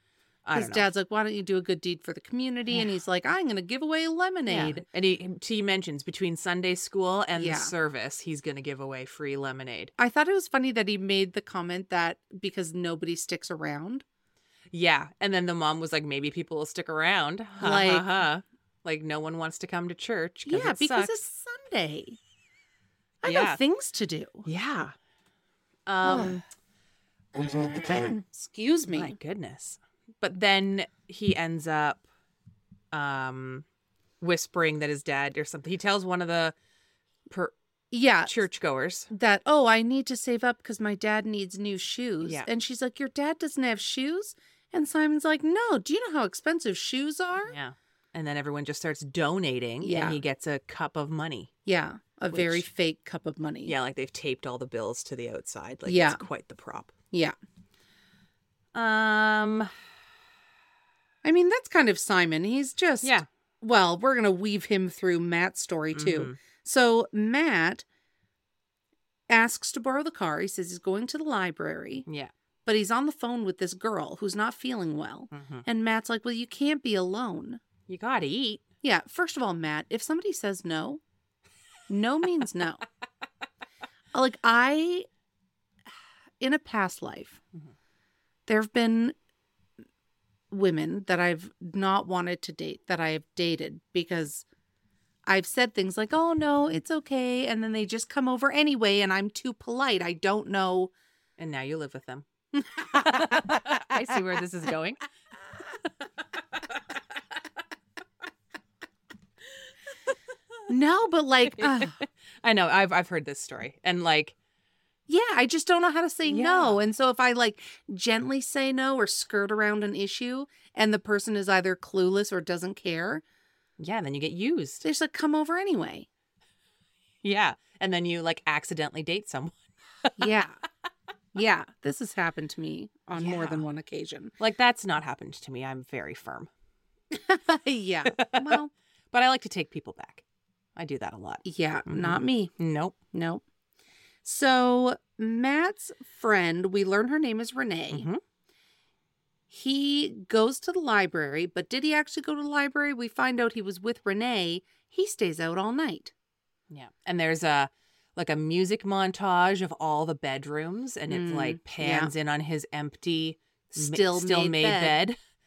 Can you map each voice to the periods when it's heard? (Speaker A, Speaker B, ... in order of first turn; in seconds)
Speaker A: 0.4-0.9, 4.5-9.9, 14.7-21.1, 23.2-23.6, 24.4-24.9, 25.9-26.4, 28.9-32.0, 32.9-33.6, 34.2-36.5, 37.3-37.5, 38.3-39.1, 42.2-42.5, 47.5-51.5, 52.3-52.6, 53.6-56.9, 58.7-59.7, 63.0-63.3, 65.9-66.4, 72.1-72.3, 75.3-75.6, 77.9-78.6, 101.4-102.2, 102.9-105.0, 111.5-114.3, 116.2-116.8, 123.8-124.8, 127.2-130.3, 133.2-133.6, 134.4-136.5, 138.1-138.6, 139.1-140.2, 140.8-142.9, 147.9-148.2, 156.7-165.2
Speaker B: 0.5-4.8, 7.3-7.7, 10.0-14.0, 17.6-18.1, 20.4-22.2, 23.2-24.4, 26.0-26.4, 27.6-29.2, 37.9-38.4, 39.1-47.5, 49.8-50.2, 51.6-53.7, 55.9-56.2, 61.2-67.8, 69.3-72.0, 72.6-77.6, 78.8-81.0, 81.9-82.8, 84.1-85.1, 86.4-87.4, 88.5-89.2, 90.5-94.4, 95.2-100.9, 102.5-104.2, 110.7-112.0, 115.1-123.2, 124.8-126.1, 130.2-130.6, 131.3-134.3, 137.1-138.7, 141.4-142.5, 143.1-143.4, 144.2-148.1, 149.5-156.1, 161.1-162.1, 163.7-165.0